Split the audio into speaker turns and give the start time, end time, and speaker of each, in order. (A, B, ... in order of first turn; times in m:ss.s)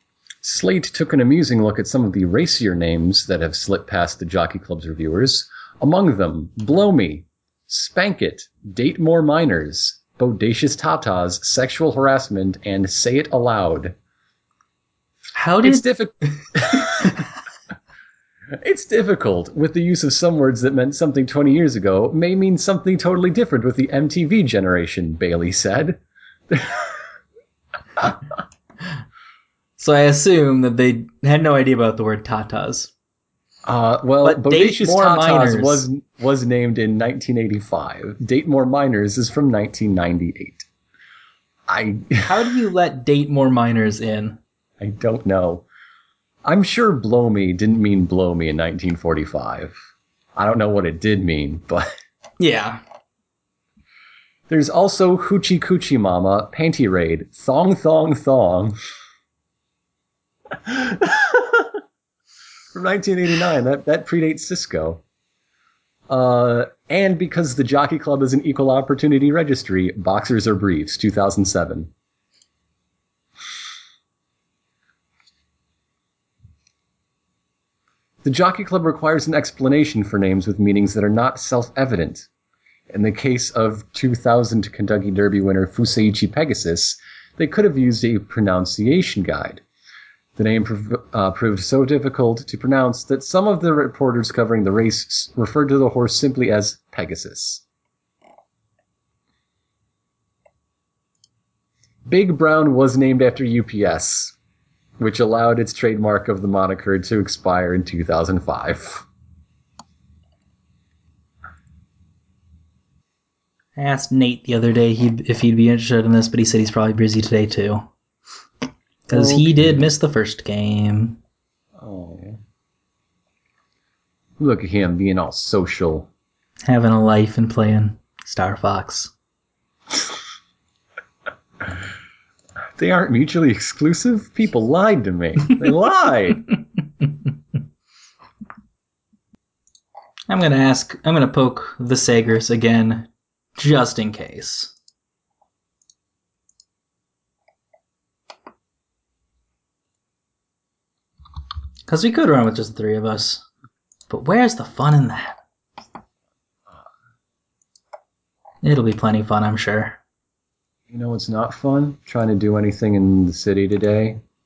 0:00.4-0:14.0 A
0:15.4-0:15.9 B
0:15.6-0:17.2 A
0:18.6-0:27.1 A
0:29.8-0:32.9 B
0:33.7-0:40.7 A
0:34.2-0:35.8 B
0:41.7-0:42.5 A
0:42.2-0:44.4 B
0:44.8-0:45.7 A
0:46.4-0:49.8 A
0:50.4-0:51.9 A
0:52.4-0:52.8 B
0:54.5-0:58.8 A
1:00.5-1:01.8 A
1:02.7-1:05.0 A
1:06.1-1:11.9 A
1:18.2-1:22.3 A
1:22.9-1:29.6 A
1:30.4-1:37.6 A
1:42.1-1:44.3 A
1:45.0-1:49.0 A
1:53.8-1:57.9 B
1:59.1-2:01.2 B
1:59.1-1:59.9 A
2:01.8-2:02.4 A
2:04.4-2:06.1 A
2:06.6-2:09.1 B
2:12.8-2:16.5 A
2:20.3-2:24.7 B
2:31.9-2:33.4 B
2:34.1-2:35.4 B
2:38.6-2:40.0 B
2:40.9-2:44.2 A